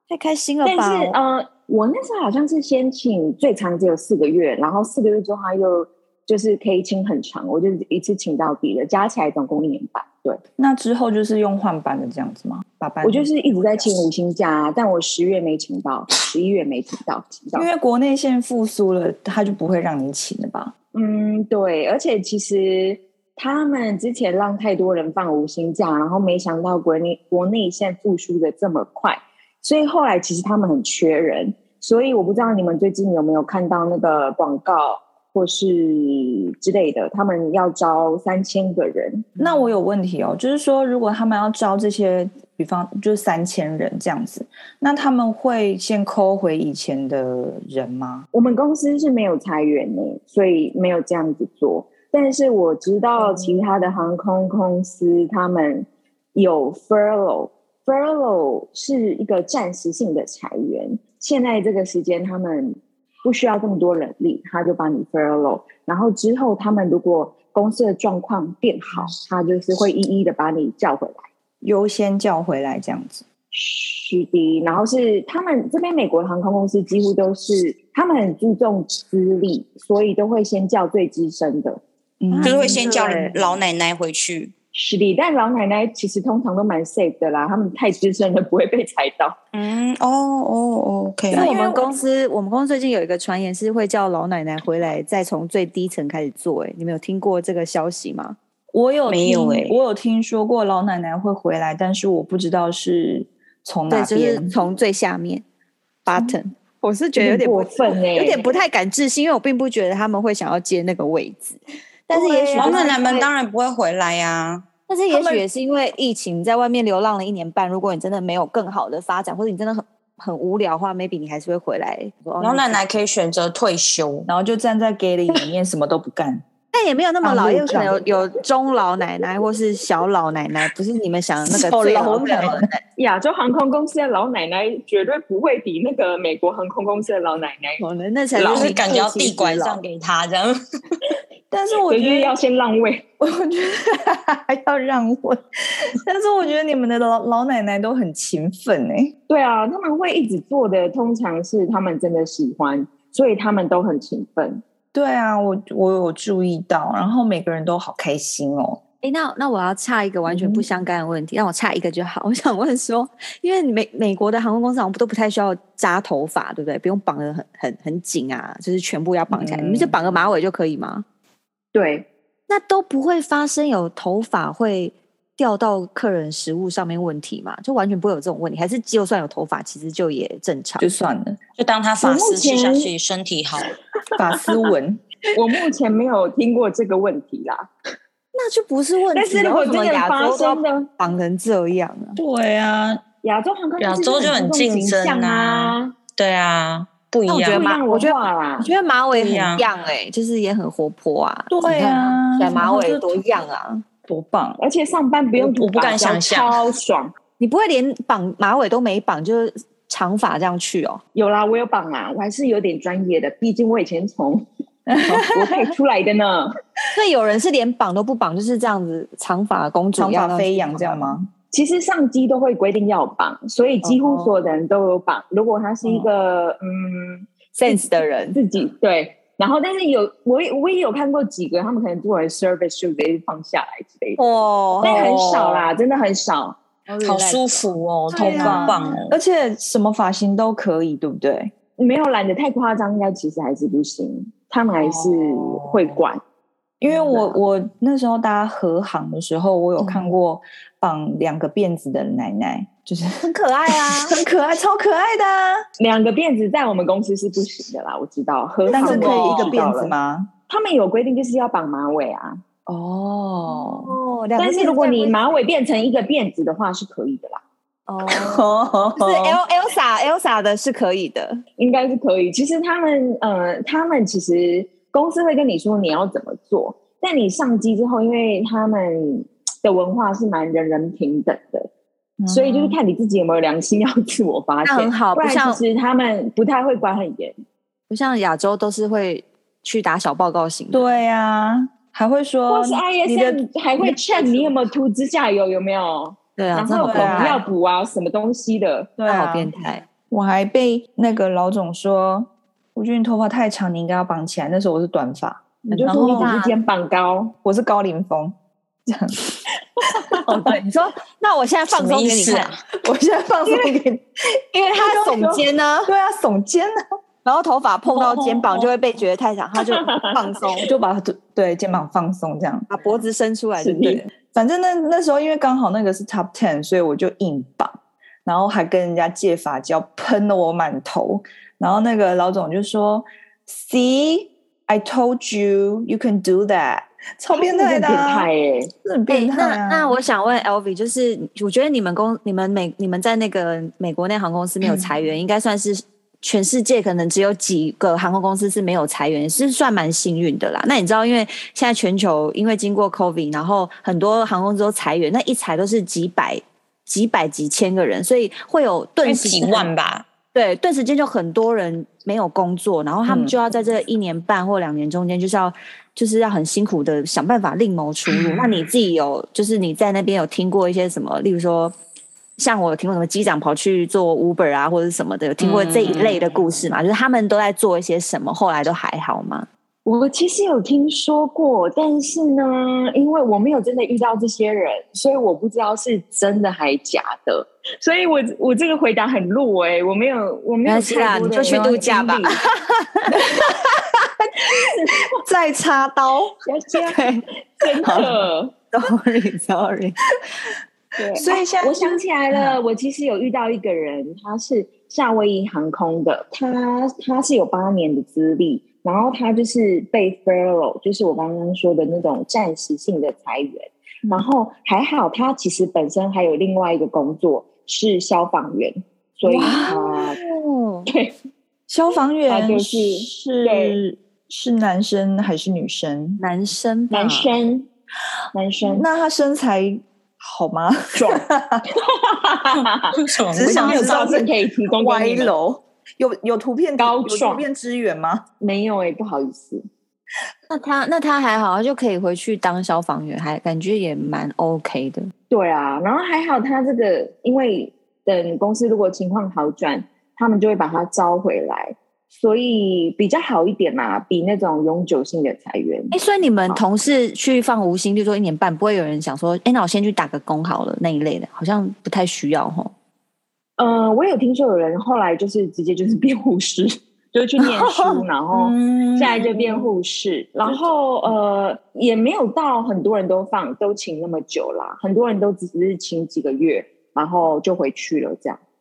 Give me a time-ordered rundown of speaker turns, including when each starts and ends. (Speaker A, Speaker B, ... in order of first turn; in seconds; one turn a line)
Speaker A: 0.1-1.2
Speaker B: 0.6-10.4
Speaker C: 10.6-13.9
Speaker B: 13.0-17.7
Speaker C: 17.5-20.7
Speaker B: 20.9-39.3
Speaker C: 39.4-48.3
Speaker B: 48.3-71.3
Speaker C: 53.2-53.6
Speaker C: 71.6-73.2
Speaker B: 73.5-81.8
Speaker C: 82.2-82.9
Speaker A: 82.3-83.5
Speaker D: 82.4-84.5
Speaker B: 84.7-89.4
Speaker D: 89.5-91.6
Speaker C: 91.3-91.8
Speaker A: 91.3-98.4
Speaker C: 98.7-104.5
Speaker D: 99.1-99.8
Speaker A: 103.9-105.5
Speaker A: 106.0-113.3
Speaker B: 107.2-108.5
Speaker C: 112.1-113.0
Speaker D: 112.6-114.7
Speaker A: 114.9-122.8
Speaker C: 115.1-115.5
Speaker D: 122.4-124.3
Speaker C: 124.3-126.4
Speaker A: 126.7-132.8
Speaker C: 127.2-128.1
Speaker C: 131.5-132.7
Speaker B: 133.0-137.8
Speaker A: 137.8-139.8
Speaker B: 138.3-138.8
Speaker D: 138.4-141.0
Speaker C: 141.5-142.3
Speaker B: 141.9-143.1
Speaker C: 143.2-149.2
Speaker B: 149.3-154.6
Speaker C: 154.9-158.8
Speaker A: 159.0-171.1
Speaker C: 160.3-160.6
Speaker C: 169.3-170.0
Speaker B: 171.7-172.1
Speaker A: 172.5-180.9
Speaker C: 180.8-181.4
Speaker D: 181.6-183.7
Speaker B: 182.0-182.9
Speaker C: 184.2-185.0
Speaker B: 185.3-187.7
Speaker A: 188.3-192.2
Speaker B: 189.1-190.9
Speaker D: 192.2-193.0
Speaker B: 193.2-195.9
Speaker D: 193.8-197.7
Speaker A: 197.3-203.9
Speaker B: 197.5-198.7
Speaker D: 199.1-199.7
Speaker C: 201.5-203.2
Speaker C: 204.1-204.6
Speaker B: 204.6-207.1
Speaker D: 205.4-206.5
Speaker A: 207.4-211.0
Speaker B: 211.2-214.4
Speaker C: 214.9-215.6
Speaker B: 215.0-216.5
Speaker A: 216.9-221.2
Speaker C: 220.0-221.3
Speaker B: 221.5-234.2
Speaker A: 223.8-224.3
Speaker A: 227.6-228.4
Speaker A: 234.2-235.2
Speaker B: 234.8-236.6
Speaker D: 234.8-235.6
Speaker A: 236.9-239.0
Speaker D: 237.0-239.2
Speaker C: 238.1-241.5
Speaker B: 241.8-246.2
Speaker C: 244.8-246.0
Speaker C: 246.8-255.6
Speaker A: 246.8-247.4
Speaker A: 249.8-250.1
Speaker A: 253.2-254.2
Speaker B: 255.8-259.9
Speaker C: 258.7-260.3
Speaker A: 258.7-259.6
Speaker B: 260.5-262.4
Speaker C: 262.7-264.0
Speaker A: 263.4-265.2
Speaker B: 264.4-267.4
Speaker A: 267.9-271.4
Speaker C: 268.1-269.4
Speaker B: 271.6-281.7
Speaker C: 282.2-282.8
Speaker B: 282.3-287.4
Speaker A: 284.6-285.6
Speaker A: 287.9-290.8
Speaker C: 290.7-294.5
Speaker B: 292.5-298.9
Speaker A: 296.4-297.4
Speaker C: 296.8-297.4
Speaker C: 299.0-299.5
Speaker A: 299.1-299.9
Speaker C: 300.1-306.3
Speaker B: 305.6-307.3
Speaker A: 305.7-306.5
Speaker C: 307.4-309.2
Speaker B: 309.8-310.2
Speaker A: 310.2-312.6
Speaker D: 311.7-312.6
Speaker C: 312.8-314.0
Speaker A: 314.5-315.9
Speaker B: 314.8-315.4
Speaker C: 315.9-316.7
Speaker A: 317.2-320.7
Speaker C: 317.9-318.3
Speaker B: 319.7-320.3
Speaker C: 320.6-322.7
Speaker A: 322.7-324.1
Speaker C: 323.6-338.3
Speaker B: 337.3-338.7
Speaker C: 338.8-339.9
Speaker A: 339.1-359.7
Speaker D: 359.0-360.1
Speaker A: 360.3-371.7
Speaker C: 363.1-363.4
Speaker A: 372.4-379.5
Speaker D: 375.4-376.2
Speaker B: 379.9-392.4
Speaker A: 390.6-392.7
Speaker C: 391.2-392.1
Speaker B: 393.1-393.6
Speaker B: 394.4-395.1
Speaker C: 395.3-396.3
Speaker B: 396.4-398.5
Speaker A: 396.8-397.2
Speaker C: 397.9-398.1
Speaker A: 398.7-400.0
Speaker B: 401.0-420.2
Speaker C: 401.1-402.6
Speaker C: 419.3-420.0
Speaker A: 419.4-420.9
Speaker B: 420.9-421.1
Speaker C: 421.7-426.2
Speaker B: 422.3-423.8
Speaker A: 426.2-427.3
Speaker B: 426.9-427.7
Speaker B: 428.3-428.9
Speaker C: 428.6-431.6
Speaker B: 430.9-435.3
Speaker D: 432.9-433.9
Speaker C: 433.3-438.2
Speaker B: 436.8-437.4
Speaker B: 438.4-439.6
Speaker A: 440.5-445.1
Speaker B: 445.3-456.0
Speaker A: 455.9-462.7
Speaker B: 463.6-478.4
Speaker A: 467.5-468.0
Speaker C: 468.3-469.7